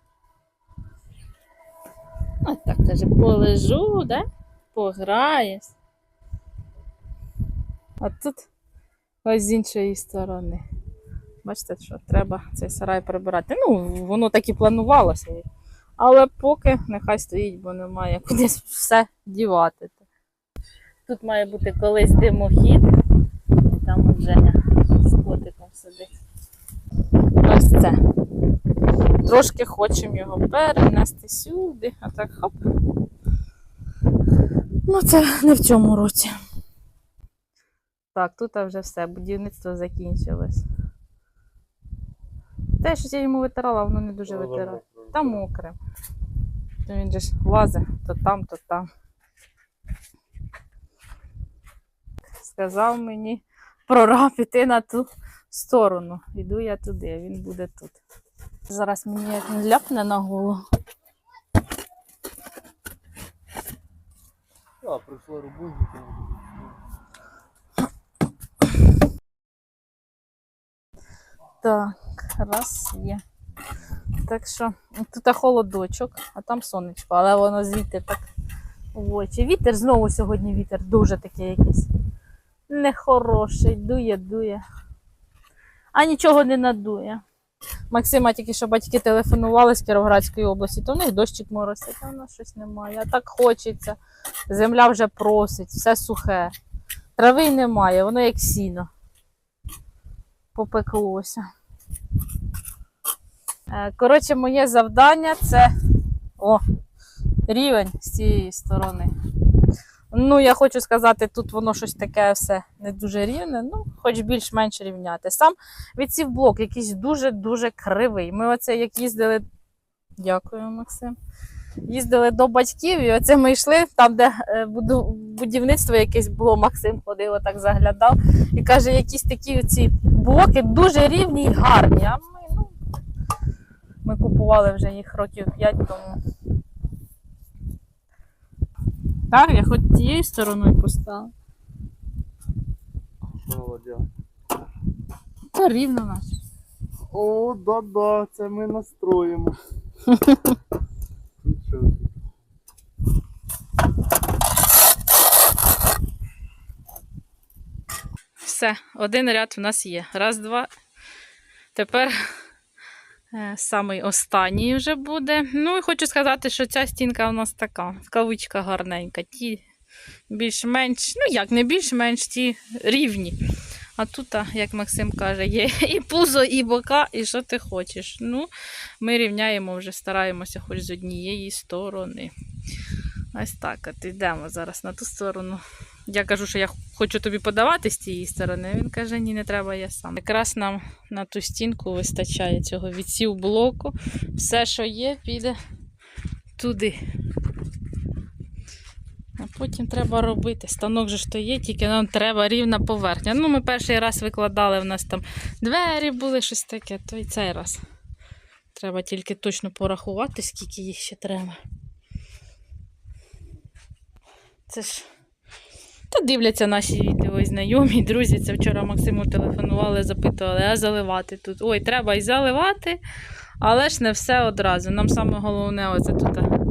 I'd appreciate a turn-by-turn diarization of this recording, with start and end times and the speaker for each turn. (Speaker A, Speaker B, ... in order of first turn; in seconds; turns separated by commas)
Speaker A: 2.4-5.7, Speaker A: 8.0-8.5, Speaker A: 9.2-10.6, Speaker A: 11.4-15.4, Speaker A: 16.0-20.0, Speaker A: 21.1-22.9, Speaker A: 23.6-26.1, Speaker A: 27.4-28.0, Speaker A: 29.2-32.5, Speaker A: 34.8-36.4, Speaker A: 38.1-40.6, Speaker A: 42.8-45.8, Speaker A: 46.9-48.9, Speaker A: 52.4-58.0, Speaker A: 58.7-60.6, Speaker B: 64.8-66.7, Speaker A: 71.6-73.2, Speaker A: 74.2-78.2, Speaker A: 78.9-81.9, Speaker A: 82.7-84.6, Speaker A: 85.9-87.2, Speaker A: 87.9-94.0, Speaker A: 94.5-96.5, Speaker A: 97.2-98.9, Speaker A: 100.5-101.5, Speaker A: 103.7-105.7, Speaker A: 107.5-109.1, Speaker A: 110.1-119.4, Speaker A: 120.2-121.1, Speaker A: 121.8-132.7, Speaker A: 134.0-136.2, Speaker A: 139.3-141.3, Speaker B: 143.4-144.1, Speaker A: 145.5-146.3, Speaker B: 147.1-149.6, Speaker A: 150.1-150.5, Speaker B: 151.4-152.1, Speaker A: 158.4-160.7, Speaker A: 161.7-162.3, Speaker A: 163.3-169.6, Speaker A: 170.3-173.4, Speaker A: 174.0-182.3, Speaker A: 183.3-195.6, Speaker A: 196.6-197.0, Speaker A: 199.4-207.8, Speaker A: 208.7-211.6, Speaker A: 214.7-215.1, Speaker A: 216.1-223.0, Speaker A: 223.6-226.5